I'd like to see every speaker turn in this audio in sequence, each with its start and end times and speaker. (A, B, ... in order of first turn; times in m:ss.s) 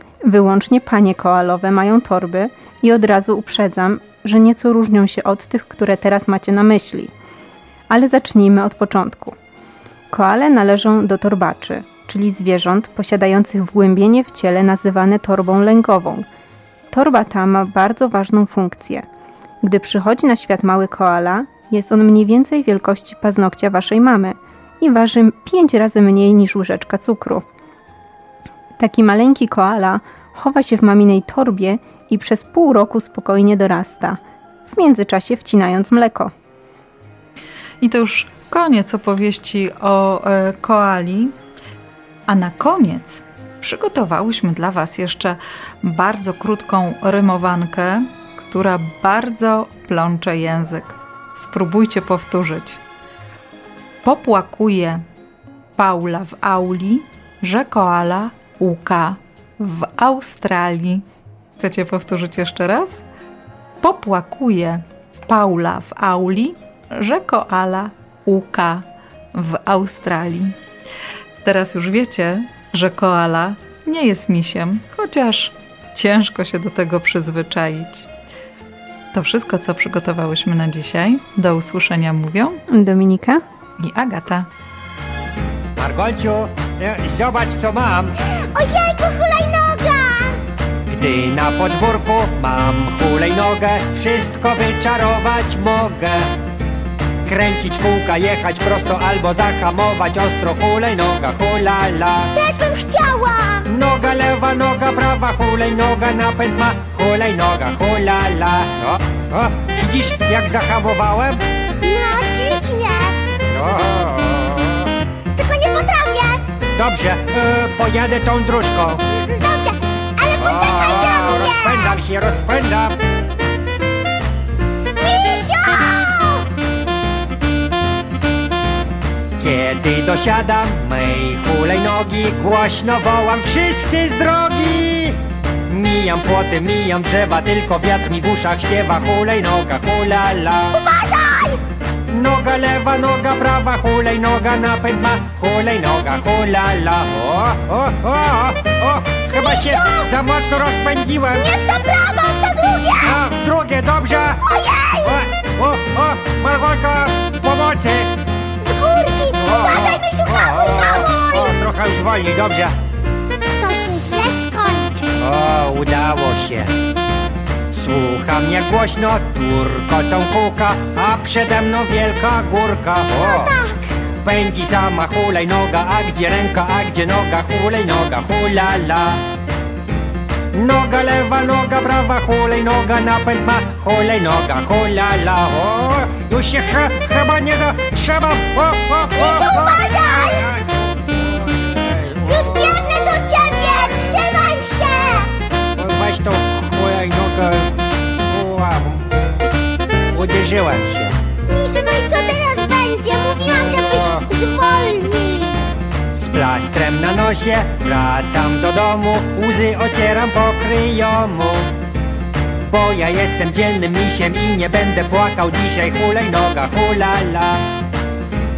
0:00.2-0:07.1 A
0:07.9-0:09.3 A
0:10.1-0:16.2 A
0:16.9-0:19.0 A
0:19.6-0:27.4 A
0:28.8-0:36.3 A
0:37.8-0:41.3 B
0:42.3-0:52.8 B
0:54.0-0:55.0 B
0:55.8-1:01.0 B
1:01.6-1:03.0 B
1:03.8-1:10.5 B
1:11.4-1:18.1 B
1:19.1-1:22.6 B
1:22.7-1:23.4 A
1:23.8-1:24.5 B
1:25.8-1:28.1 C
1:28.5-1:30.4 D
1:30.9-1:36.3 C
1:37.2-1:42.3 C
1:42.3-1:43.7 D
1:43.7-1:51.4 C
1:51.8-1:53.2 D
1:53.5-1:54.9 C
1:55.3-1:56.4 D
1:56.7-1:59.0 C
1:59.4-2:02.0 D
2:00.4-2:03.0 C
2:05.0-2:06.5 D
2:09.4-2:20.7 C
2:20.7-2:21.6 D
2:22.1-2:31.4 C
2:29.3-2:30.1 D
2:31.3-2:33.2 D
2:33.0-2:34.4 C
2:34.4-2:35.1 D
2:35.0-2:38.1 C
2:38.6-2:41.6 D
2:39.4-2:42.7 C
2:43.6-2:45.1 D
2:45.2-2:46.7 C
2:47.7-2:53.5 C
2:53.2-2:53.9 D
2:54.2-2:59.2 C
3:00.5-3:10.6 C
3:09.1-3:10.4 D
3:11.6-3:12.2 C
3:12.2-3:15.3 D
3:15.8-3:17.8 C
3:18.3-3:19.1 C
3:20.1-3:21.2 C
3:21.5-3:25.6 D
3:26.1-3:31.7 C
3:32.7-3:37.6 C